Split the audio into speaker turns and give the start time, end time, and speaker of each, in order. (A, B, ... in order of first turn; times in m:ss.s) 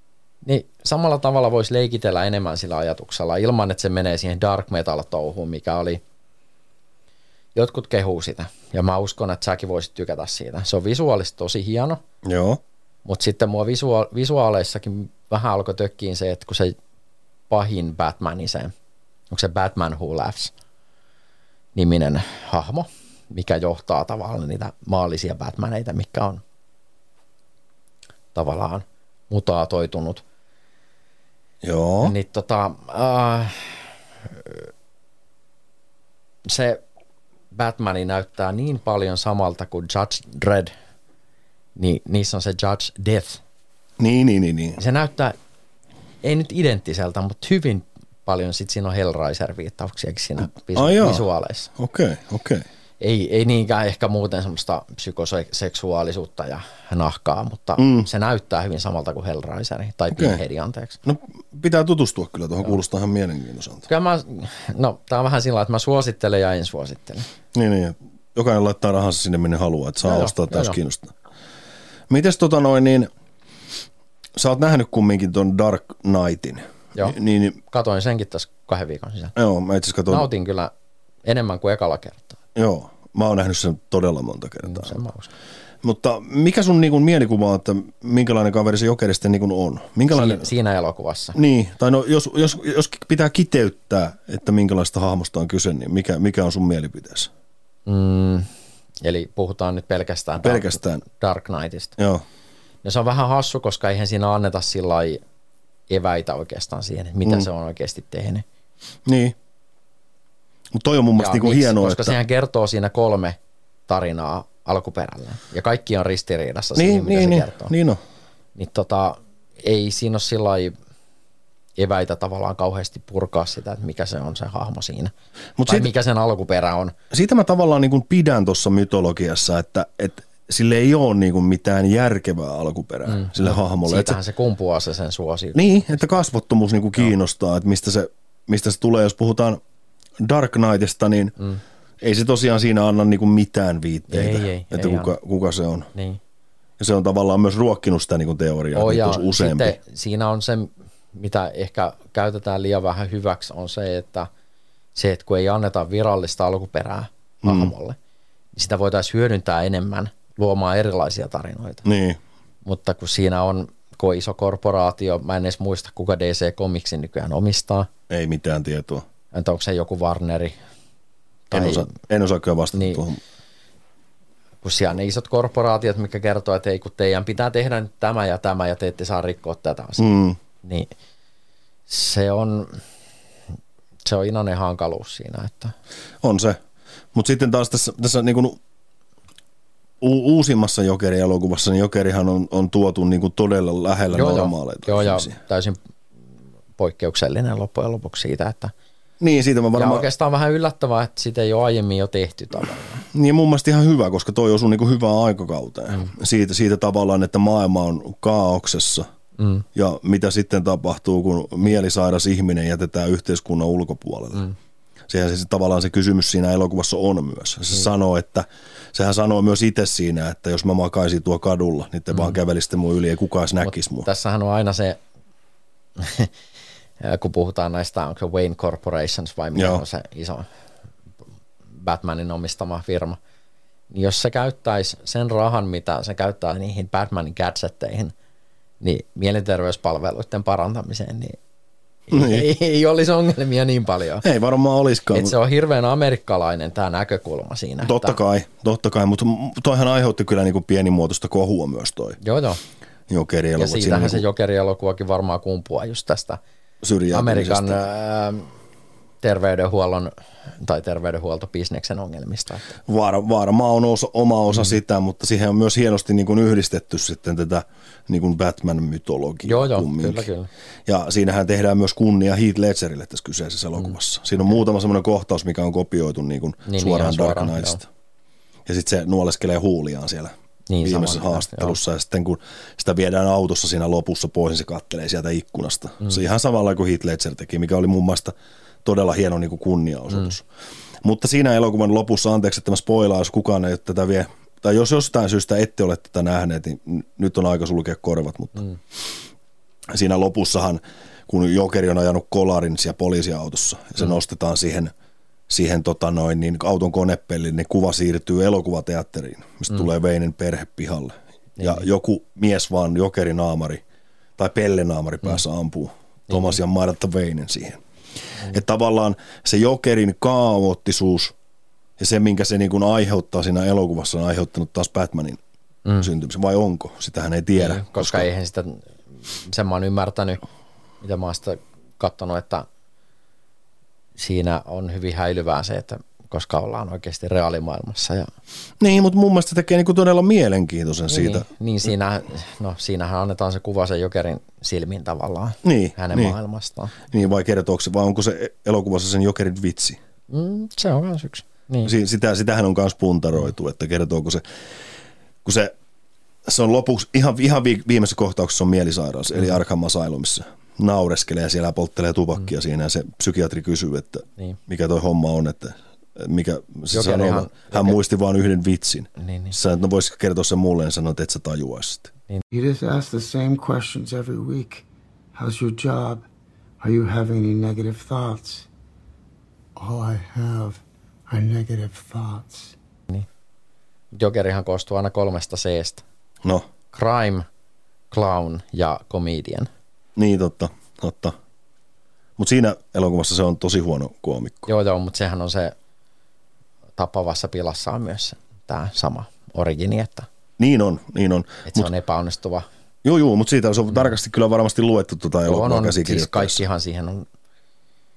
0:00.4-0:06.0 A
0:07.5-0:12.0 A
0:12.2-0:12.6 B
0:13.0-0:16.8 A
0:17.5-0:18.7 A
0:19.3-0:20.5 A
0:21.7-0:26.4 A
0:28.3-0:30.2 A
0:31.6-0:32.1 B
0:32.0-0:34.7 A
0:36.4-0:36.8 A
0:37.5-0:40.7 A
0:41.8-0:43.4 A
0:44.0-0:44.8 B
0:44.8-0:45.4 A
0:46.2-0:51.7 A
0:50.7-0:52.6 B
0:53.0-1:01.0 A
0:57.8-0:58.1 B
1:00.1-1:00.4 B
1:01.0-1:03.9 B
1:03.9-1:07.3 A
1:07.5-1:11.1 B
1:10.0-1:10.8 A
1:12.1-1:13.1 B
1:14.4-1:17.6 B
1:16.9-1:19.4 A
1:19.4-1:20.3 B
1:20.1-1:20.7 A
1:21.2-1:22.4 A
1:22.6-1:25.0 B
1:24.6-1:25.3 A
1:25.8-1:30.5 B
1:30.1-1:31.4 A
1:31.3-1:37.3 B
1:37.8-1:38.5 A
1:39.0-1:41.9 A
1:40.4-1:41.0 B
1:42.0-1:42.2 B
1:42.8-1:45.2 A
1:45.9-1:48.4 A
1:49.0-1:49.4 B
1:50.7-1:52.2 B
1:51.2-1:57.7 A
1:56.8-1:58.0 B
1:58.5-2:00.7 A
2:01.8-2:05.1 A
2:05.6-2:05.9 B
2:05.6-2:06.9 A
2:07.1-2:14.2 B
2:13.1-2:16.1 A
2:15.5-2:19.6 B
2:20.2-2:21.3 B
2:22.0-2:25.9 B
2:24.1-2:25.1 A
2:26.8-2:29.8 B
2:28.7-2:34.3 A
2:34.9-2:38.0 A
2:37.4-2:37.7 B
2:38.5-2:41.8 A
2:41.8-2:42.2 B
2:42.6-2:47.9 A
2:48.1-2:49.0 B
2:49.3-2:50.5 A
2:51.5-2:51.9 A
2:51.5-2:53.2 B
2:52.7-2:53.0 A
2:54.6-3:00.0 A
3:00.0-3:00.4 B
3:00.6-3:00.9 A
3:01.9-3:02.8 A
3:04.0-3:05.7 A
3:06.2-3:06.6 B
3:07.1-3:08.6 B
3:10.0-3:15.3 B
3:14.1-3:15.8 A
3:16.8-3:18.7 A
3:19.2-3:20.1 B
3:19.7-3:23.0 A
3:23.1-3:29.1 B
3:29.4-3:29.6 A
3:29.7-3:34.5 B
3:35.1-3:44.1 B
3:42.1-3:42.4 A
3:43.6-3:45.0 A
3:46.0-3:46.3 A
3:47.0-3:50.5 A
3:49.5-3:49.8 B
3:51.8-3:53.2 A
3:53.9-3:58.1 A
3:58.8-4:01.4 A
4:02.1-4:04.2 A
4:02.1-4:02.5 B
4:04.2-4:05.3 B
4:05.1-4:08.2 A
4:07.8-4:12.2 B
4:12.2-4:12.6 A
4:13.1-4:14.2 B
4:13.6-4:16.4 A
4:16.8-4:17.8 B
4:17.1-4:18.5 A
4:19.2-4:22.8 A
4:22.8-4:30.3 B
4:29.4-4:30.5 A
4:30.8-4:37.8 B
4:36.6-4:37.8 A
4:38.6-4:40.3 B
4:40.7-4:41.8 A
4:40.8-4:50.4 B
4:51.0-4:59.0 B
4:59.9-5:04.9 B
5:05.5-5:13.8 B
5:11.6-5:11.8 A
5:14.4-5:17.8 B
5:16.3-5:16.6 A
5:18.4-5:21.3 B
5:22.0-5:25.4 B
5:26.0-5:28.3 B
5:27.6-5:30.4 A
5:31.0-5:32.6 A
5:34.2-5:38.3 A
5:38.8-5:41.5 B
5:41.1-5:47.0 A
5:45.6-5:46.4 B
5:47.1-5:50.0 B
5:50.3-5:51.9 A
5:51.8-5:54.4 B
5:55.4-5:55.7 B
5:56.4-6:12.1 B
6:06.9-6:08.0 A
6:09.2-6:09.5 A
6:12.5-6:16.2 C
6:16.8-6:18.7 C
6:19.8-6:22.8 C
6:24.1-6:26.0 A
6:26.9-6:27.4 A
6:28.1-6:29.7 A
6:30.2-6:31.3 B
6:32.4-6:34.7 B
6:34.7-6:35.7 A
6:37.0-6:40.3 A
6:40.6-6:41.9 B
6:41.7-6:42.6 A
6:43.0-6:46.6 B
6:45.4-6:47.3 A